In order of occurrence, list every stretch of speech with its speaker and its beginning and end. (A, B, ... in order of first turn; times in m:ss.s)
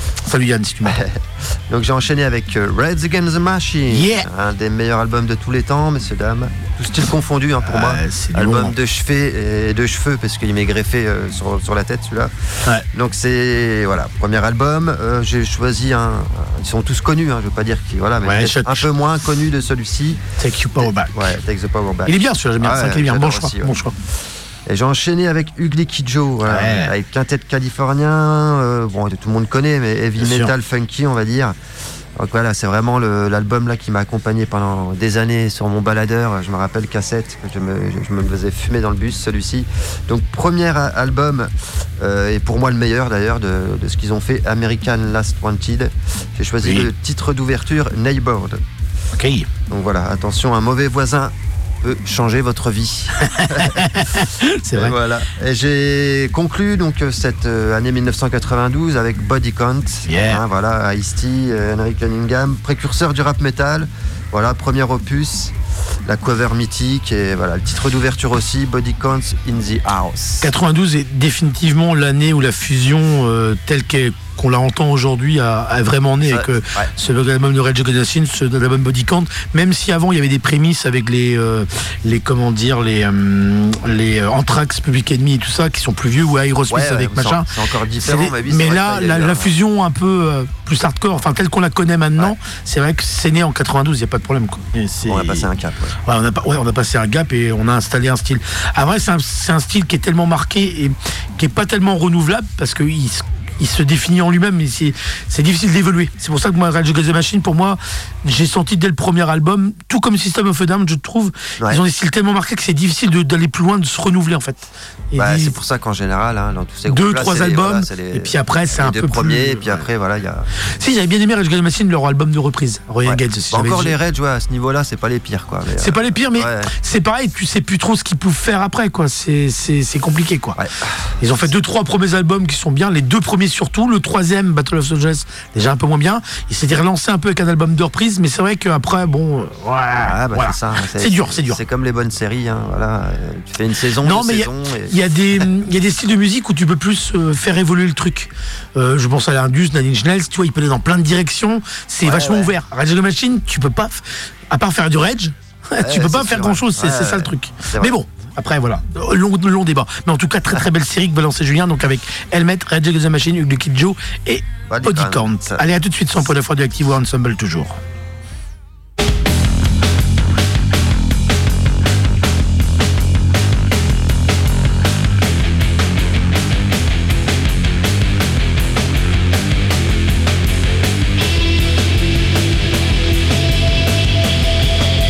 0:00.2-0:01.0 A
0:00.9-0:20.2 B
0:03.9-0:04.3 A
0:07.6-0:08.8 A
0:18.2-0:18.9 A
0:20.4-0:21.3 A
0:20.8-0:23.8 B
0:22.0-0:23.9 A
0:24.6-0:31.6 B
0:26.4-0:26.9 A
0:30.2-0:30.5 A
0:32.2-0:48.6 B
0:46.6-0:46.9 A
0:49.1-0:49.5 A
0:49.7-1:10.5 B
0:53.2-0:55.0 A
1:00.1-1:00.4 A
1:10.4-1:35.5 A
1:16.2-1:16.9 B
1:26.7-1:29.5 B
1:35.1-1:36.0 B
1:36.0-1:55.6 A
1:55.1-2:00.5 B
1:56.9-1:59.8 A
2:00.8-2:04.0 A
2:03.0-2:06.7 B
2:05.8-2:10.6 A
2:10.6-2:11.2 B
2:11.2-2:21.6 A
2:20.0-2:25.5 B
2:24.0-2:47.8 A
2:32.0-2:32.5 B
2:35.8-2:38.0 B
2:44.7-2:45.6 B